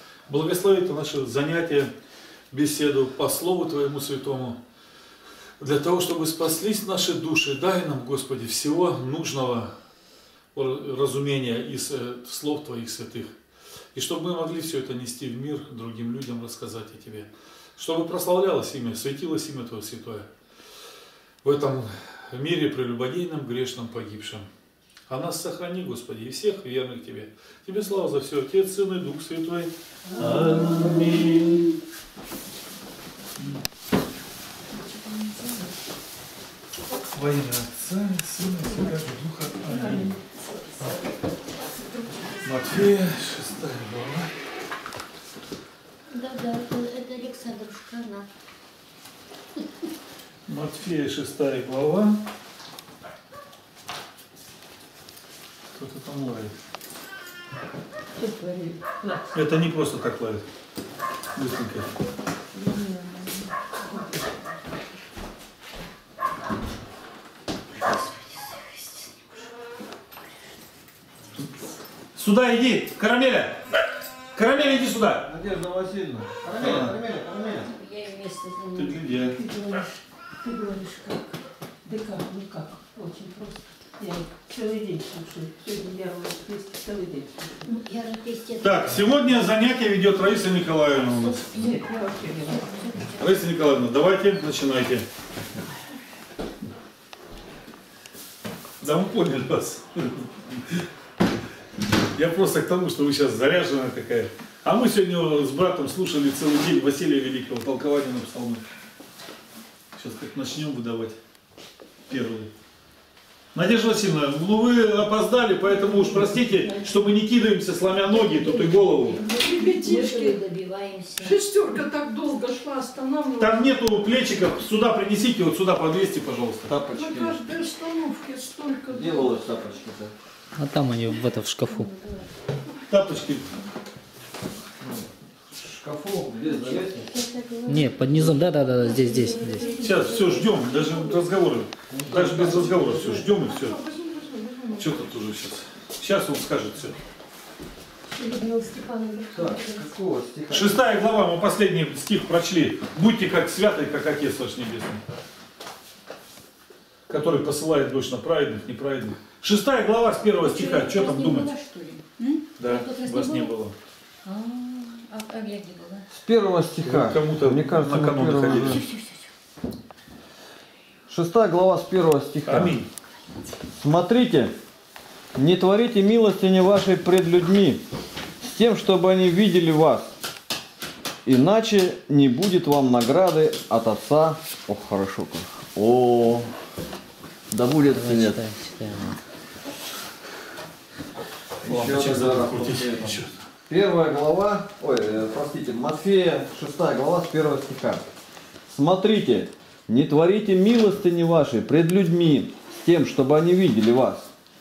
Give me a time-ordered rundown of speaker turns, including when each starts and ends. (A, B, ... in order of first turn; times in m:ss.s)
0:00.3-0:01.9 A
0:02.5-0:04.6 A
0:05.6-0:09.7 A
0:10.5-0:13.4 A
0:13.9-0:20.3 A
0:21.4-0:24.5 A
0:25.1-0:31.7 A
0:37.1-0:40.2 A
0:39.7-0:40.2 B
0:42.4-0:44.4 A
0:46.1-0:48.2 C
0:50.5-0:52.3 A
0:55.7-0:56.5 A
0:58.2-0:59.3 B
0:59.3-1:00.4 A
1:01.3-1:01.9 A
1:02.5-1:03.3 B
1:12.1-1:13.6 A
1:14.3-1:15.3 A
1:15.2-1:17.7 D
1:16.6-1:17.0 A
1:17.2-1:19.1 C
1:18.7-1:19.4 A
1:19.3-1:19.8 B
1:20.4-1:21.3 B
1:21.8-1:27.4 B
1:27.6-1:29.0 C
1:28.6-1:31.5 A
1:31.4-1:33.1 B
1:33.2-1:35.0 A
1:38.8-1:40.8 A
1:42.1-1:48.6 A
1:49.9-1:51.2 A
1:52.1-1:52.5 A
1:53.5-1:59.2 A
1:58.3-2:01.4 C
1:59.4-2:00.4 B
2:01.2-2:03.6 B
2:03.4-2:06.7 A
2:06.7-2:07.4 D
2:06.9-2:09.4 B
2:08.9-2:10.1 D
2:10.6-2:11.9 E
2:11.8-2:12.2 C
2:12.9-2:13.5 A
2:14.8-2:17.1 D
2:16.4-2:21.2 C
2:17.7-2:19.8 E
2:19.8-2:23.8 A
2:21.9-2:23.2 D
2:24.8-2:27.0 A
2:28.1-2:29.8 C
2:29.3-2:31.0 D
2:30.5-2:35.0 A
2:37.1-2:41.5 A
2:40.4-2:43.6 C
2:42.6-2:43.7 A
2:44.2-2:46.1 C
2:46.1-2:48.8 D
2:46.8-2:48.8 A
2:48.7-2:49.2 C
2:51.1-2:52.8 D
2:52.4-2:52.9 A
2:53.7-2:54.5 D
2:55.3-2:57.8 D
2:58.4-3:00.1 D
3:01.2-3:06.5 D
3:07.5-3:08.4 D
3:07.9-3:09.2 E
3:11.6-3:13.3 A
3:11.6-3:18.0 D
3:18.7-3:24.3 D